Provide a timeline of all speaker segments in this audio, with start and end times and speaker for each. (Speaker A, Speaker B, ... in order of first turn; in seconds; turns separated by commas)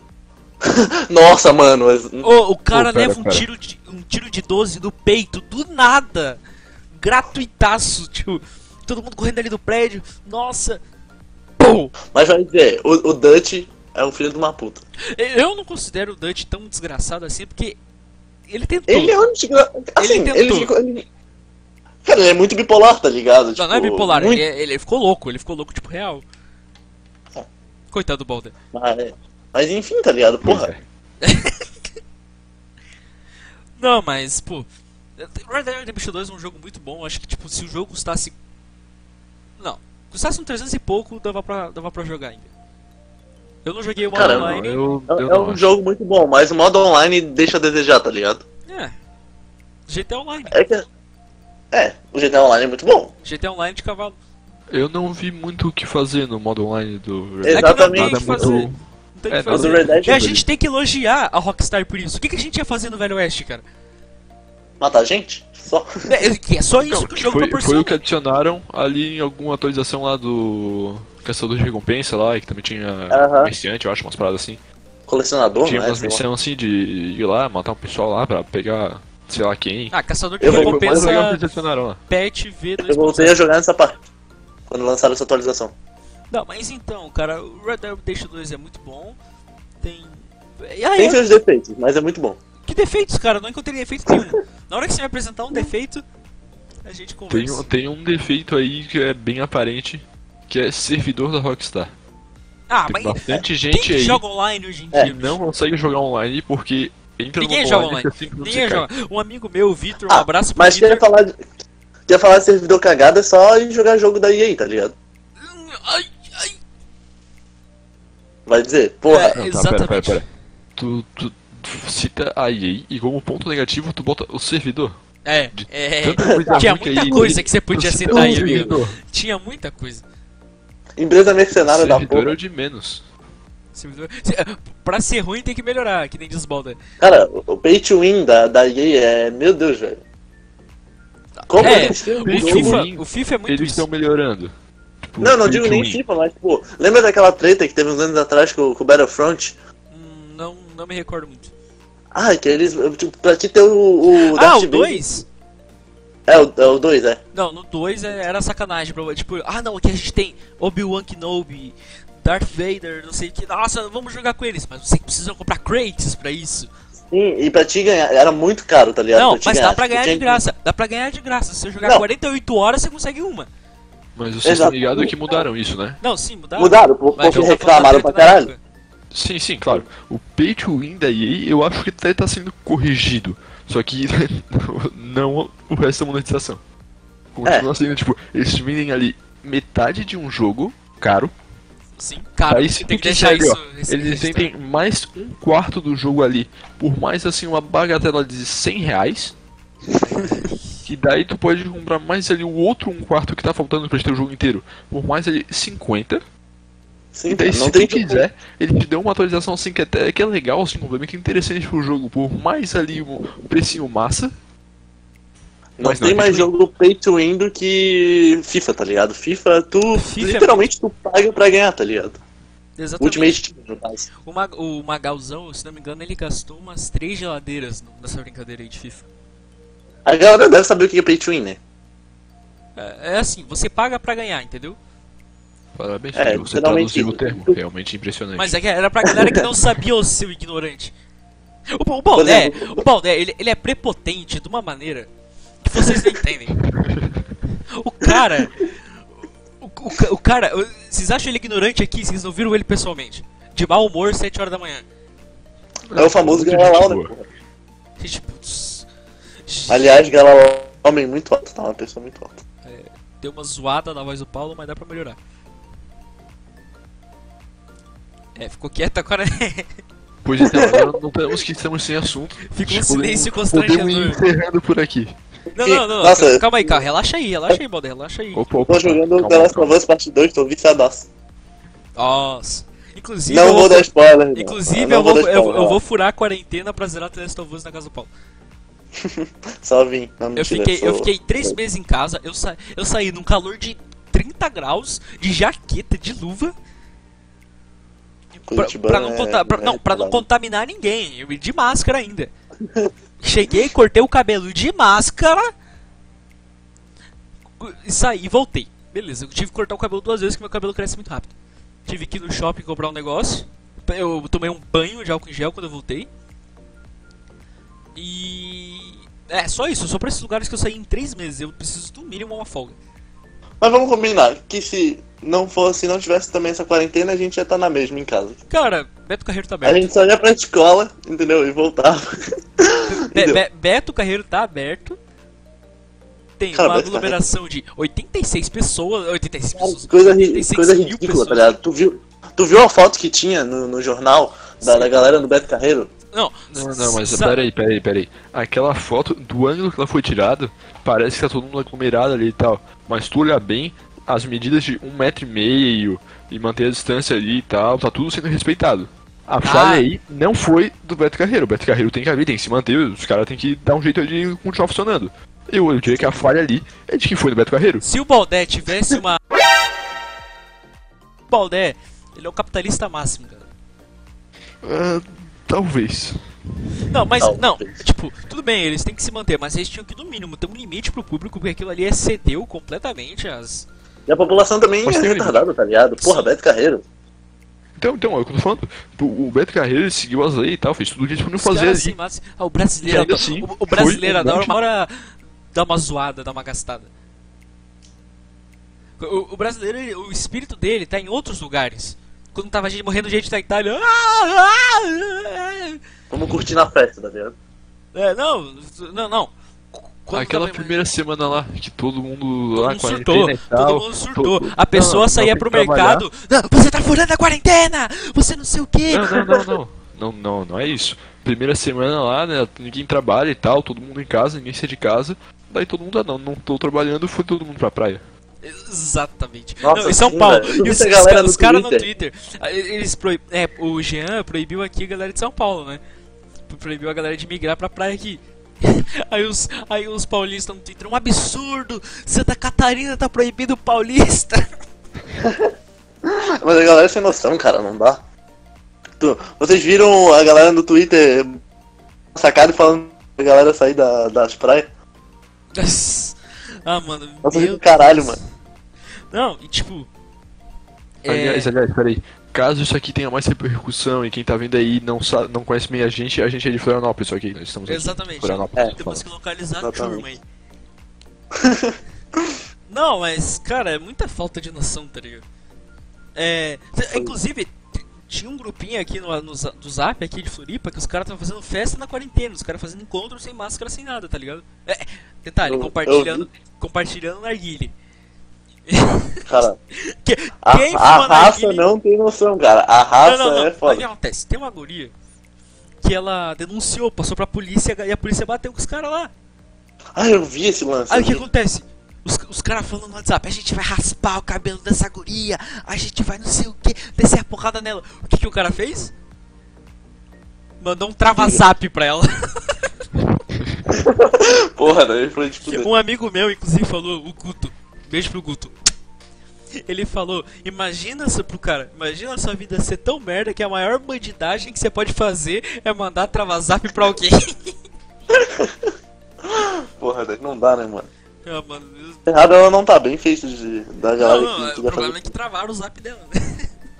Speaker A: 0.6-2.3, Speaker B: 2.2-6.4, Speaker C: 2.7-3.4, Speaker B: 6.9-10.8, Speaker B: 11.6-11.9, Speaker A: 12.1-14.8, Speaker B: 15.1-17.8, Speaker B: 18.5-19.2, Speaker A: 18.9-21.1, Speaker B: 20.0-20.7, Speaker A: 22.0-24.4, Speaker B: 23.6-26.2, Speaker B: 27.9-28.5, Speaker A: 28.7-30.7, Speaker C: 30.4-30.8, Speaker B: 31.2-31.6, Speaker B: 33.8-34.7, Speaker B: 35.2-38.3, Speaker B: 39.6-42.5, Speaker B: 43.6-44.8, Speaker C: 44.1-45.7, Speaker A: 44.1-48.4, Speaker B: 48.7-48.9, Speaker B: 49.9-50.6, Speaker A: 50.5-50.9, Speaker A: 51.7-53.1, Speaker B: 53.2-54.2, Speaker C: 54.7-58.8, Speaker A: 57.4-58.7, Speaker B: 57.5-63.6, Speaker C: 59.3-60.4, Speaker A: 59.5-60.2, Speaker A: 64.8-66.0, Speaker B: 66.0-68.0, Speaker C: 66.8-74.6, Speaker A: 73.1-73.5, Speaker A: 75.1-76.2, Speaker C: 75.6-82.0, Speaker B: 79.9-81.4, Speaker A: 80.4-81.2, Speaker B: 82.1-83.4, Speaker A: 82.8-84.0, Speaker A: 84.7-85.7, Speaker B: 86.3-89.2, Speaker B: 89.8-91.3, Speaker A: 91.0-92.4, Speaker B: 92.7-96.0, Speaker B: 96.8-97.7, Speaker C: 97.3-101.9, Speaker B: 102.7-105.4, Speaker C: 102.9-104.2, Speaker C: 105.0-108.9, Speaker B: 107.4-111.0, Speaker A: 110.1-111.4, Speaker A: 112.1-114.9, Speaker B: 115.4-116.6, Speaker A: 118.5-119.4, Speaker B: 119.1-120.2, Speaker C: 119.3-120.2, Speaker C: 120.8-125.0, Speaker B: 125.2-130.0, Speaker C: 125.5-129.0, Speaker A: 126.2-127.3, Speaker A: 128.1-128.8, Speaker A: 131.0-132.3, Speaker C: 131.6-133.0, Speaker B: 133.7-136.8, Speaker A: 137.0-140.0, Speaker B: 141.4-143.8, Speaker A: 141.5-142.8, Speaker C: 141.6-146.0, Speaker A: 145.2-149.6, Speaker B: 149.9-151.5, Speaker A: 152.1-155.1, Speaker B: 154.2-155.2, Speaker A: 156.3-157.2, Speaker B: 157.3-166.7, Speaker A: 167.1-170.4, Speaker B: 169.1-173.5, Speaker C: 174.2-176.0, Speaker A: 174.4-175.4, Speaker B: 176.0-178.6, Speaker A: 176.6-178.5, Speaker C: 177.3-177.5, Speaker C: 179.1-186.6, Speaker C: 187.3-191.3, Speaker B: 192.0-194.5, Speaker C: 192.5-199.3, Speaker B: 200.0-200.6, Speaker C: 200.8-206.2, Speaker A: 207.1-208.2, Speaker C: 207.3-214.3, Speaker A: 215.8-222.2, Speaker C: 215.8-216.5, Speaker B: 219.9-220.7, Speaker B: 222.8-223.4, Speaker A: 223.0-224.1, Speaker B: 224.2-229.0, Speaker A: 230.0-231.6, Speaker B: 232.8-234.8, Speaker C: 235.7-238.5, Speaker A: 236.1-237.6, Speaker B: 238.4-240.9, Speaker A: 239.1-239.4, Speaker B: 241.7-245.1, Speaker A: 242.2-242.8, Speaker B: 245.6-246.6, Speaker C: 246.7-247.2, Speaker B: 247.7-248.7, Speaker B: 249.6-254.8, Speaker C: 255.9-257.1, Speaker A: 255.9-257.3, Speaker B: 258.0-258.9, Speaker B: 259.5-260.1, Speaker A: 259.7-262.4, Speaker B: 262.6-265.2, Speaker B: 268.4-269.7, Speaker C: 270.2-275.1, Speaker A: 270.4-270.9, Speaker B: 272.4-274.2, Speaker B: 275.5-278.4, Speaker A: 275.6-276.9, Speaker C: 278.3-279.8, Speaker A: 278.7-281.1, Speaker B: 281.9-288.1, Speaker A: 283.3-285.8, Speaker A: 288.9-291.6, Speaker B: 290.4-296.5, Speaker A: 298.5-300.2, Speaker B: 298.5-302.3, Speaker A: 302.6-302.9, Speaker B: 303.2-305.5, Speaker B: 307.6-311.3, Speaker B: 311.9-316.1, Speaker B: 317.9-322.8, Speaker A: 323.6-328.4, Speaker B: 328.5-329.9, Speaker A: 329.6-332.1, Speaker A: 332.6-333.4, Speaker B: 332.9-335.0, Speaker B: 336.4-341.5, Speaker A: 336.5-337.2, Speaker A: 339.6-345.9, Speaker B: 344.6-345.0, Speaker B: 346.1-347.4, Speaker C: 346.5-367.8, Speaker B: 359.4-359.9, Speaker B: 367.8-369.2, Speaker B: 371.3-373.5, Speaker C: 374.6-376.2, Speaker B: 376.9-383.7, Speaker A: 377.2-377.8, Speaker A: 384.1-386.8, Speaker C: 384.8-385.4, Speaker B: 386.0-386.3, Speaker C: 387.8-391.9, Speaker B: 391.4-396.9, Speaker C: 392.8-394.6, Speaker B: 399.0-405.8, Speaker A: 406.1-407.4, Speaker B: 407.9-410.8, Speaker C: 410.1-416.1, Speaker B: 412.5-419.2, Speaker C: 418.9-428.0, Speaker A: 419.1-419.4, Speaker B: 428.4-435.8, Speaker A: 429.6-431.9, Speaker B: 436.5-444.5, Speaker A: 445.2-445.5, Speaker A: 446.1-448.0, Speaker A: 449.0-451.4, Speaker A: 452.1-454.7, Speaker B: 455.5-458.2, Speaker A: 457.2-458.2, Speaker B: 459.1-459.9, Speaker B: 461.0-461.5, Speaker C: 461.1-469.0, Speaker B: 467.6-470.2, Speaker A: 469.6-470.0, Speaker A: 471.3-472.3, Speaker B: 472.7-475.2, Speaker B: 476.1-487.7, Speaker A: 485.4-486.3, Speaker B: 488.7-491.6, Speaker A: 489.2-489.6, Speaker A: 490.4-493.9, Speaker B: 493.0-494.9, Speaker B: 495.8-499.1, Speaker A: 499.9-501.2, Speaker B: 500.9-508.9, Speaker B: 510.6-512.5, Speaker A: 511.1-511.4, Speaker A: 513.7-515.7, Speaker B: 515.4-518.5, Speaker B: 519.6-527.5, Speaker A: 528.1-528.7, Speaker A: 529.2-530.9, Speaker B: 531.2-532.0, Speaker A: 532.0-535.1, Speaker B: 534.0-536.5